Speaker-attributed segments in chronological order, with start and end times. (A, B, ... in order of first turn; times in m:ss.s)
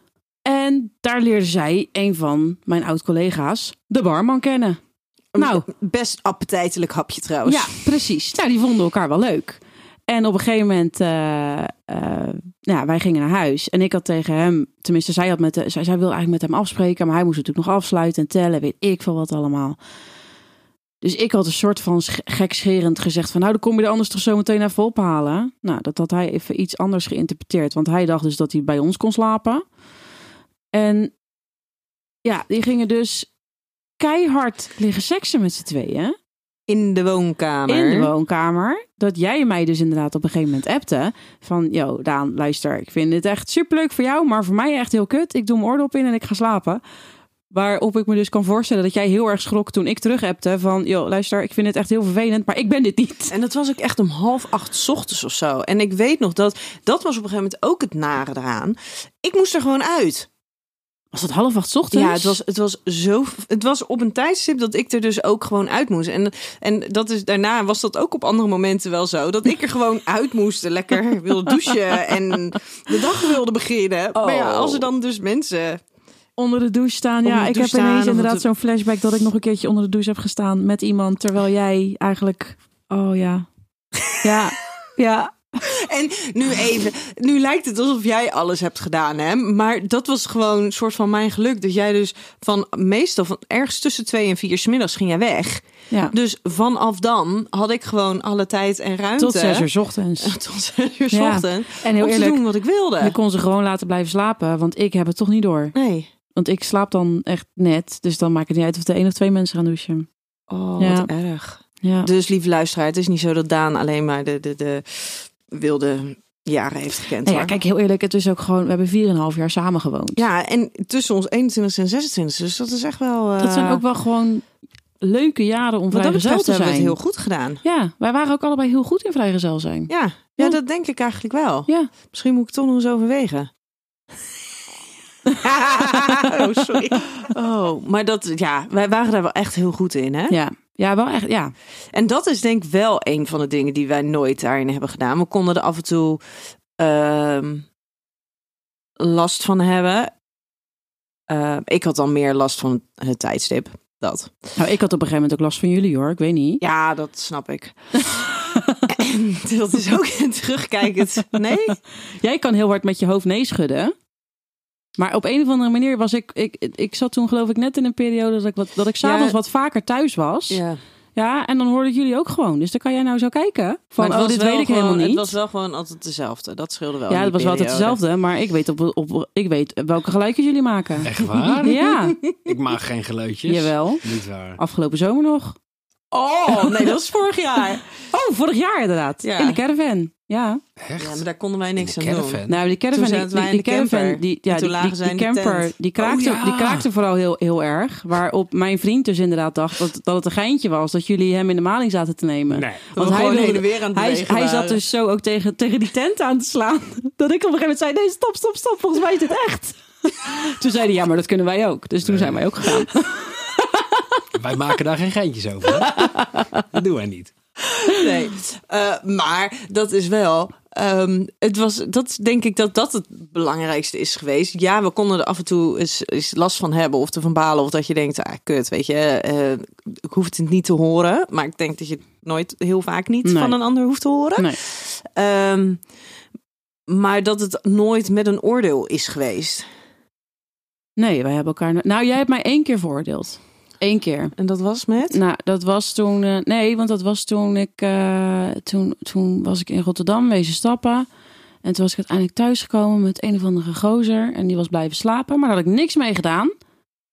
0:00.5-0:04.8 A
0:05.3-0:07.8 B
0:05.4-0:05.7 A
0:07.5-0:19.8 A
0:21.0-0:29.6 A
0:30.7-0:31.1 A
0:32.2-0:33.3 A
0:34.0-0:36.2 A
0:36.7-0:38.1 B
0:37.7-0:46.8 A
0:47.5-0:53.3 A
0:53.3-1:00.3 B
1:01.1-1:02.4 A
1:01.9-1:15.8 B
1:14.2-1:14.9 A
1:16.4-1:23.5 A
1:17.2-1:18.5 B
1:24.2-1:25.5 A
1:25.7-1:39.7 B
1:39.2-1:40.4 A
1:40.2-1:43.2 B
1:41.1-1:42.4 A
1:43.0-1:45.8 A
1:45.7-1:46.1 B
1:46.3-1:50.1 A
1:50.5-1:57.6 B
1:50.8-1:51.1 A
1:51.8-1:52.1 A
1:57.2-2:00.2 A
2:00.2-2:03.8 B
2:03.4-2:04.5 A
2:05.0-2:07.0 A
2:05.9-2:07.6 B
2:07.6-2:10.6 A
2:09.9-2:13.5 B
2:15.4-2:20.4 B
2:20.3-2:21.5 A
2:21.9-2:26.2 B
2:26.8-2:27.7 B
2:29.0-2:30.1 B
2:31.3-2:34.3 B
2:34.6-2:36.6 A
2:36.6-2:37.8 B
2:38.0-2:38.9 A
2:38.9-2:41.8 B
2:42.2-2:43.9 A
2:45.0-2:50.6 A
2:49.0-2:49.4 B
2:50.5-2:50.8 B
2:51.2-2:55.3 A
2:54.0-2:58.0 B
2:57.1-3:01.1 A
3:01.0-3:01.8 C
3:01.2-3:02.5 B
3:01.6-3:02.2 A
3:02.4-3:04.6 C
3:03.5-3:04.0 A
3:04.6-3:05.6 A
3:06.1-3:07.9 B
3:08.1-3:10.6 A
3:09.2-3:09.6 B
3:10.8-3:11.2 C
3:11.0-3:16.9 B
3:11.8-3:12.6 C
3:12.5-3:34.0 A
3:22.5-3:22.9 C
3:22.9-3:24.8 B
3:32.0-3:32.4 C
3:34.4-3:37.4 C
3:37.9-3:55.9 B
3:53.2-3:53.6 A
3:56.9-3:59.7 B
4:01.0-4:04.4 A
4:04.4-4:05.2 B
4:05.1-4:11.1 A
4:11.6-4:16.5 A